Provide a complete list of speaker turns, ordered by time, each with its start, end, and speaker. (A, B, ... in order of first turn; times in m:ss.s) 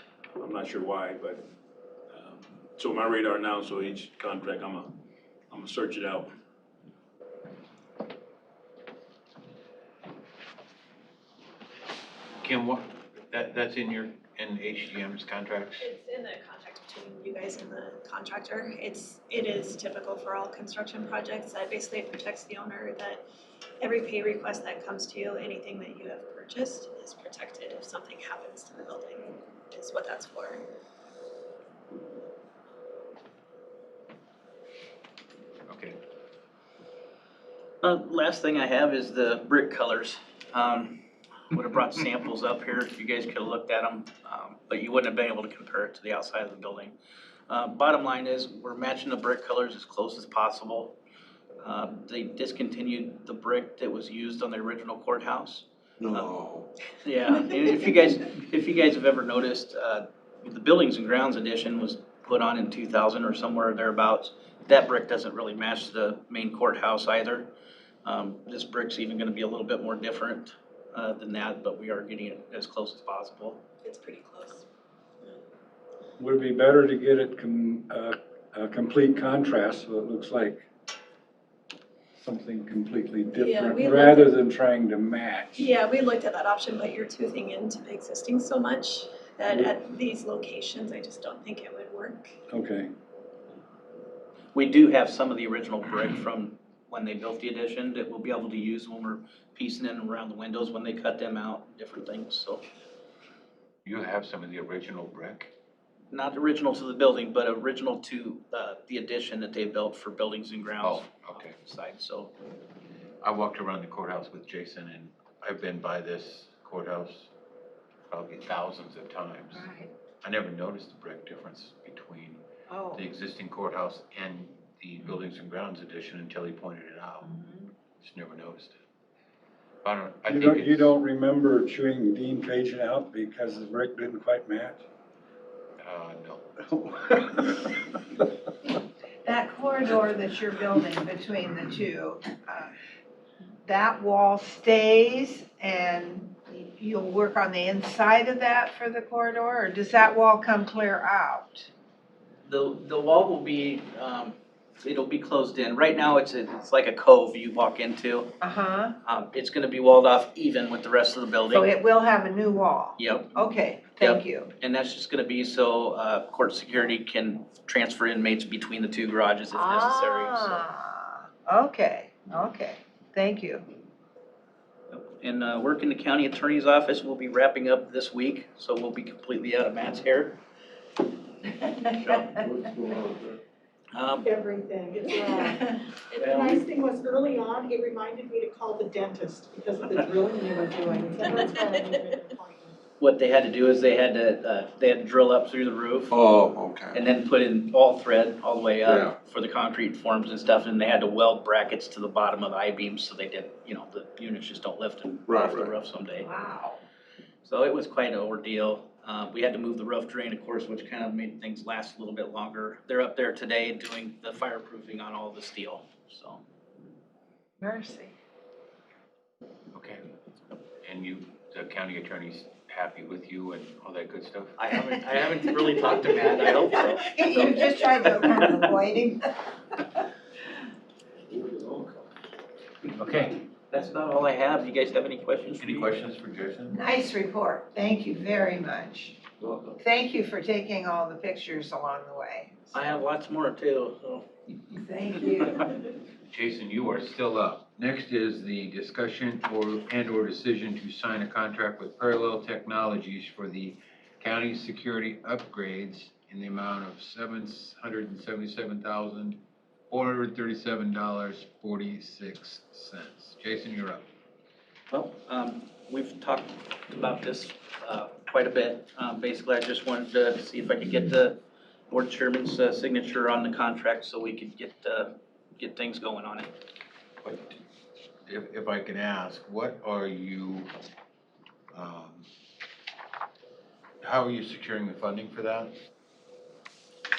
0:00.4-0:01.4 A
0:02.1-0:04.9 A
0:05.5-0:06.3 A
0:12.4-0:15.9 B
0:15.8-0:23.2 C
0:23.8-0:30.6 C
0:35.7-0:36.0 B
0:37.8-0:47.0 D
0:47.5-0:51.0 D
0:51.6-0:56.4 D
0:56.0-0:56.7 E
0:57.0-1:07.5 D
1:08.0-1:13.6 D
1:13.8-1:14.6 C
1:16.2-1:20.6 F
1:22.2-1:25.7 F
1:23.3-1:24.3 C
1:25.6-1:32.3 C
1:32.5-1:32.9 F
1:34.5-1:42.6 D
1:43.8-1:45.5 B
1:46.1-1:52.3 D
1:50.8-1:51.5 B
1:53.2-1:57.3 B
1:58.1-1:59.7 B
1:59.5-1:59.9 G
2:00.2-2:02.4 B
2:02.7-2:03.0 G
2:02.9-2:07.3 B
2:07.2-2:07.7 G
2:08.0-2:08.8 B
2:09.8-2:10.9 B
2:10.3-2:14.8 F
2:15.8-2:16.5 B
2:17.0-2:17.3 F
2:19.2-2:22.7 G
2:23.6-2:31.7 G
2:32.4-2:38.3 D
2:38.4-2:39.0 G
2:39.0-2:41.7 D
2:41.5-2:44.5 G
2:43.0-2:43.3 D
2:44.0-2:50.6 D
2:49.5-2:53.6 G
2:54.9-3:00.4 D
3:01.7-3:02.4 D
3:02.4-3:03.4 E
3:03.9-3:04.3 D
3:04.2-3:05.6 H
3:05.2-3:05.6 G
3:06.2-3:06.5 C
3:06.2-3:12.8 H
3:11.3-3:12.0 C
3:13.0-3:16.2 D
3:16.1-3:17.0 E
3:16.9-3:26.3 D
3:18.8-3:19.1 E
3:25.3-3:25.7 E
3:26.2-3:26.8 G
3:27.4-3:36.4 D
3:37.6-3:38.1 G
3:39.8-3:40.0 B
3:40.8-3:44.6 B
3:44.6-3:48.5 D
3:46.8-3:49.2 G
3:51.3-3:52.0 E
3:52.9-3:53.4 B
3:53.7-3:55.9 D
3:55.6-3:56.8 B
3:56.7-3:59.2 G
3:59.8-4:02.9 G
4:02.7-4:04.3 D
4:04.7-4:05.6 G
4:06.2-4:19.4 B
4:19.9-4:24.1 B
4:24.9-4:36.5 D
4:37.2-4:37.6 B
4:38.3-4:40.7 B
4:41.7-4:42.3 B
4:44.0-4:45.7 B